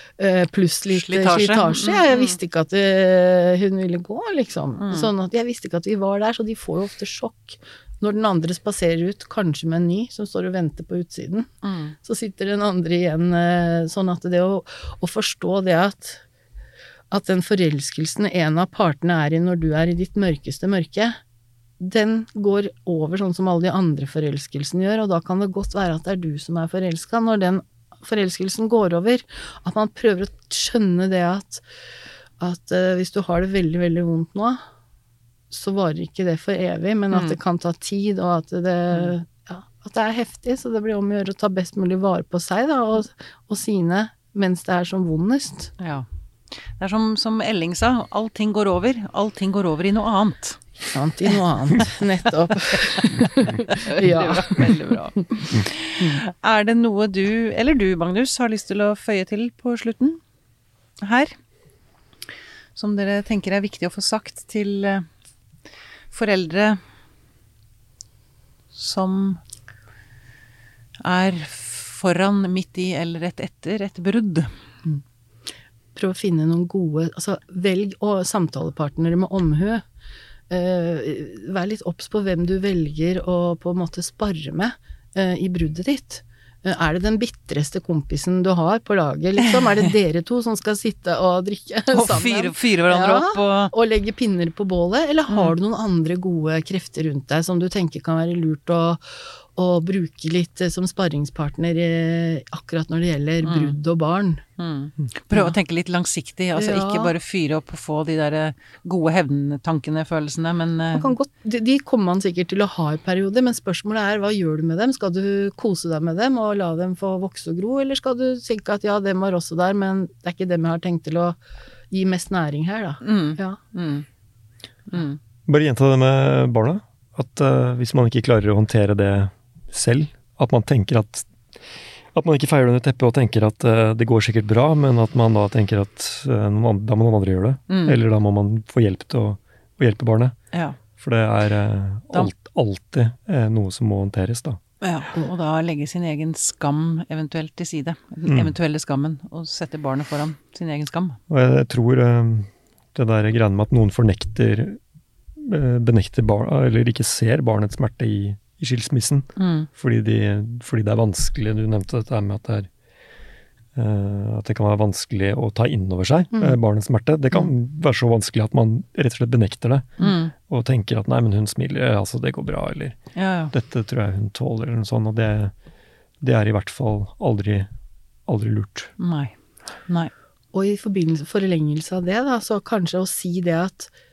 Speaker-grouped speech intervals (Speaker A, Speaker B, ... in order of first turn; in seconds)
Speaker A: 0.2-11.5, 12.0-16.2, 17.1-21.2, 21.8-31.6, 32.4-34.6, 35.5-45.7, 50.9-56.2, 75.9-79.8, 80.5-99.0, 99.5-104.4, 106.5-107.1, 110.9-121.4, 121.9-123.6, 180.5-183.9
Speaker B: 0.9-2.4, 4.8-5.1, 11.6-11.9, 37.1-37.4, 45.8-46.0, 46.8-50.6, 53.2-60.2, 61.0-61.3, 62.8-65.1, 66.1-66.8, 68.7-69.4, 71.0-74.5, 91.9-93.7, 95.3-95.5, 103.4-103.8, 104.6-111.1, 123.0-124.0, 124.9-125.2, 137.7-138.0, 144.8-151.2, 159.4-159.7, 170.0-170.3, 173.1-173.5, 179.0-179.3
Speaker C: 125.5-140.3, 141.0-144.6, 148.2-148.5, 151.3-154.8, 155.4-162.7, 163.7-169.9, 170.5-173.0, 173.5-175.5, 176.2-177.7, 178.3-178.9